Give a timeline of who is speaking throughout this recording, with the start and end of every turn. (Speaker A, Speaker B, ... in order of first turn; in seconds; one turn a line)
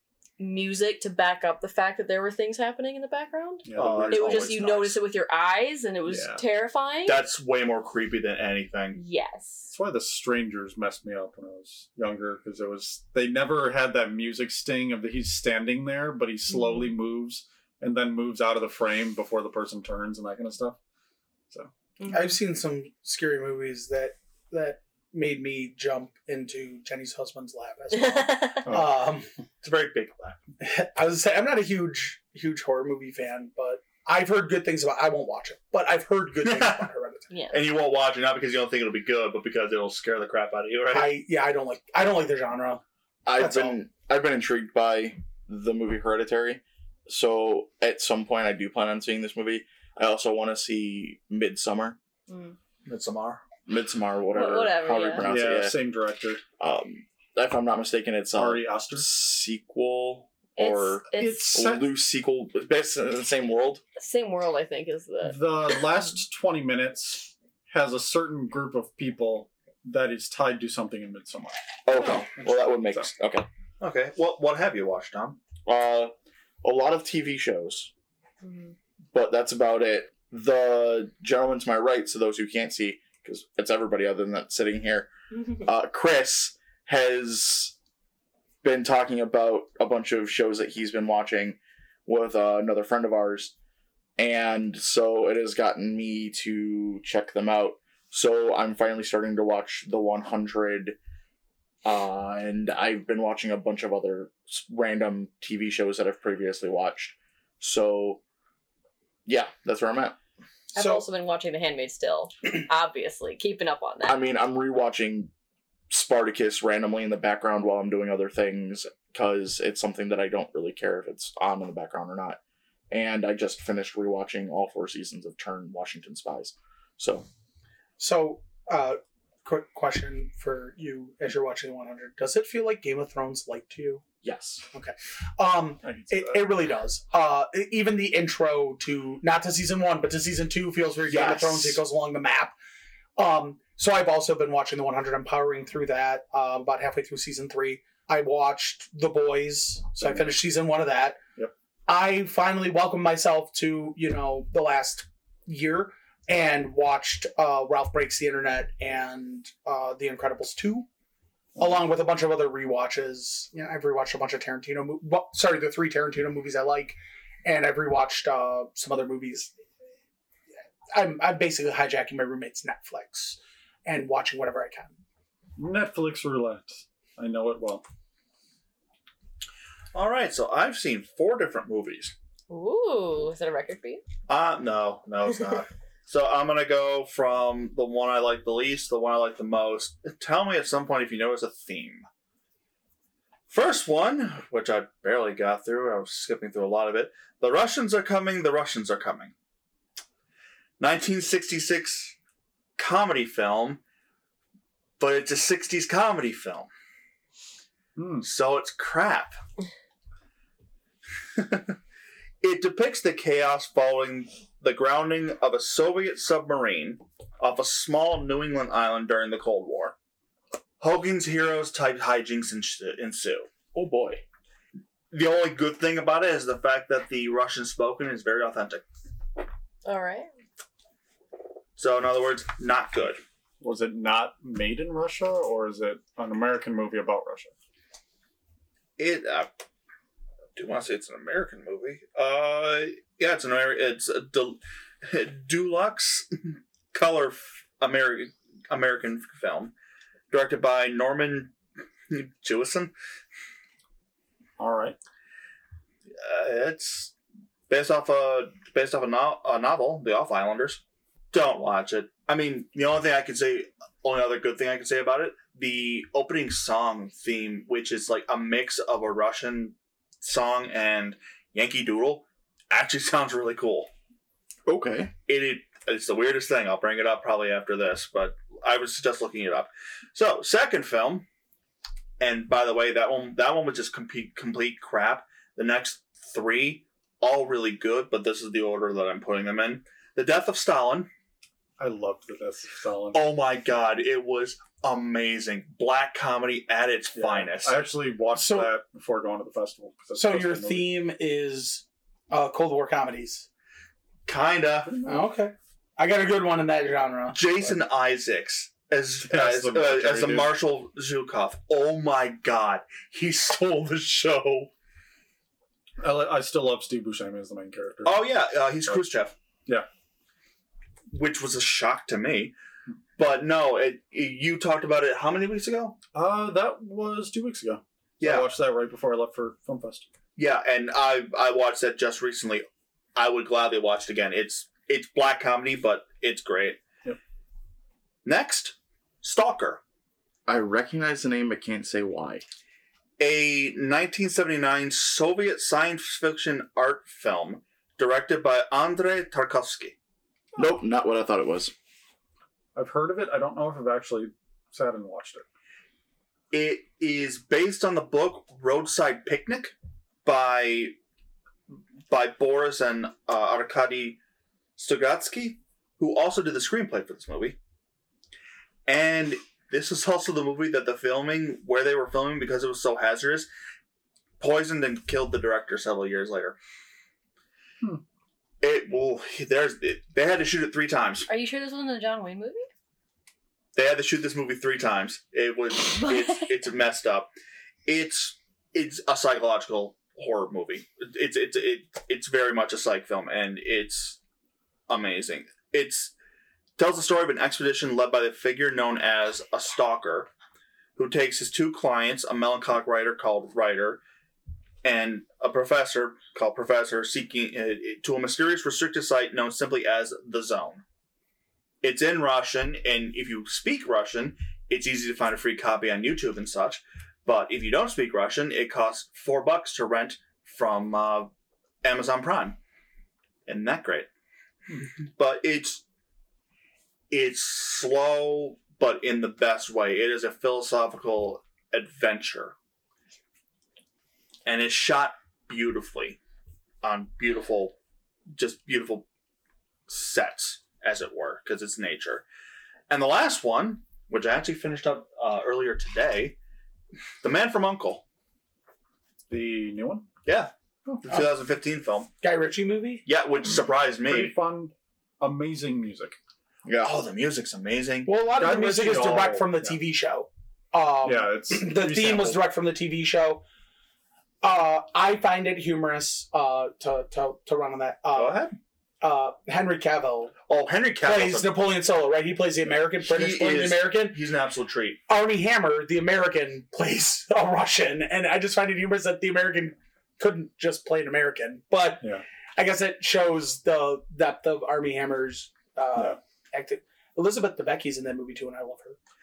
Speaker A: 0.4-7.2
Speaker B: 3.7-4.6
Speaker C: 3.7-5.0
Speaker B: 6.1-6.4
Speaker C: 7.0-9.0
Speaker A: 8.9-9.7
Speaker B: 9.7-20.8
Speaker A: 16.5-16.9
Speaker A: 22.0-22.4
Speaker D: 22.1-29.3
Speaker A: 28.0-28.7
Speaker B: 28.6-28.9
Speaker C: 29.6-30.4
Speaker D: 30.6-37.3
Speaker C: 36.4-36.9
Speaker A: 37.3-37.6
Speaker C: 37.5-41.1
Speaker D: 40.9-42.8
Speaker E: 43.2-52.0
Speaker D: 43.4-43.8
Speaker A: 52.3-52.6
Speaker C: 52.8-53.4
Speaker E: 53.7-55.8
Speaker A: 54.3-55.2
Speaker B: 55.2-56.4
Speaker E: 56.6-63.8
Speaker B: 58.4-59.1
Speaker A: 60.6-61.5
Speaker B: 61.2-61.9
Speaker A: 64.0-65.4
Speaker B: 65.2-71.6
Speaker E: 71.9-73.5
Speaker B: 72.4-73.1
Speaker C: 73.8-75.4
Speaker E: 75.6-77.9
Speaker A: 78.4-78.7
Speaker E: 79.1-87.7
Speaker E: 88.6-93.5
Speaker E: 94.2-101.0
Speaker E: 101.8-108.2
Speaker E: 109.2-110.2
Speaker A: 110.7-114.2
Speaker D: 110.8-111.0
Speaker E: 114.1-115.3
Speaker E: 115.9-122.4
Speaker E: 122.9-127.2
Speaker D: 128.0-134.0
Speaker E: 134.2-134.6
Speaker D: 134.7-142.5
Speaker B: 135.8-136.5
Speaker E: 141.1-141.8
Speaker D: 143.2-151.2
Speaker B: 150.0-150.3
Speaker D: 151.9-160.9
Speaker D: 161.6-169.5
Speaker D: 170.9-174.9
Speaker B: 175.6-177.8
Speaker C: 179.9-182.1
Speaker A: 182.5-184.0
Speaker C: 184.3-192.1
Speaker C: 193.5-199.3
Speaker C: 200.8-202.1
Speaker C: 202.8-203.8
Speaker C: 205.0-206.7
Speaker B: 207.9-208.3
Speaker C: 208.2-209.4
Speaker C: 211.4-211.7
Speaker C: 212.4-219.9
Speaker C: 220.8-223.5
Speaker E: 223.7-224.2
Speaker C: 225.1-228.8
Speaker A: 229.8-230.3
Speaker C: 231.8-233.2
Speaker B: 233.6-237.5
Speaker C: 239.0-239.5
Speaker C: 240.6-249.7
Speaker C: 250.3-251.6
Speaker C: 252.1-252.9
Speaker B: 254.6-254.9
Speaker C: 256.2-257.1
Speaker C: 257.7-273.9
Speaker E: 274.7-275.1
Speaker C: 275.3-281.2
Speaker C: 282.2-291.1
Speaker B: 291.8-293.2
Speaker C: 293.1-297.8
Speaker B: 297.1-300.9
Speaker D: 298.3-298.7
Speaker D: 300.1-303.4
Speaker C: 304.2-305.0
Speaker B: 304.8-305.3
Speaker D: 305.1-307.5
Speaker C: 307.3-314.7
Speaker B: 309.2-310.5
Speaker B: 316.0-318.3
Speaker C: 318.1-319.3
Speaker C: 321.1-322.5
Speaker C: 323.2-326.0
Speaker B: 326.1-330.1
Speaker C: 328.2-328.5
Speaker C: 330.4-336.8
Speaker C: 338.2-339.8
Speaker E: 340.5-342.4
Speaker C: 343.2-350.0
Speaker E: 350.6-351.7
Speaker B: 352.8-355.4
Speaker C: 356.5-359.7
Speaker C: 360.2-360.9
Speaker C: 362.1-364.2
Speaker C: 364.8-367.6
Speaker C: 368.9-373.5
Speaker C: 374.4-376.6
Speaker C: 378.6-381.3
Speaker A: 381.3-382.7
Speaker C: 383.8-387.3
Speaker A: 386.0-386.5
Speaker C: 387.9-394.2
Speaker C: 394.9-396.1
Speaker C: 396.8-400.3
Speaker C: 401.0-404.0
Speaker C: 404.8-410.8
Speaker C: 411.8-421.3
Speaker C: 421.8-422.6
Speaker C: 423.5-424.1
Speaker C: 425.1-425.8
Speaker C: 427.1-432.5
Speaker C: 434.4-436.2
Speaker C: 436.8-437.8
Speaker C: 438.4-439.1
Speaker C: 439.9-442.2
Speaker C: 442.9-446.4
Speaker C: 447.2-448.0
Speaker B: 449.3-450.1
Speaker C: 450.2-450.5
Speaker C: 451.0-452.1
Speaker D: 452.2-453.0
Speaker C: 453.1-454.3
Speaker B: 454.1-456.1
Speaker E: 456.6-456.9
Speaker C: 456.8-458.1
Speaker D: 458.0-463.4
Speaker B: 458.3-459.8
Speaker B: 461.0-462.5
Speaker D: 464.4-468.4
Speaker C: 468.1-468.6
Speaker D: 469.0-470.4
Speaker C: 470.5-471.5
Speaker D: 471.0-474.2
Speaker C: 473.0-475.0
Speaker D: 475.1-489.0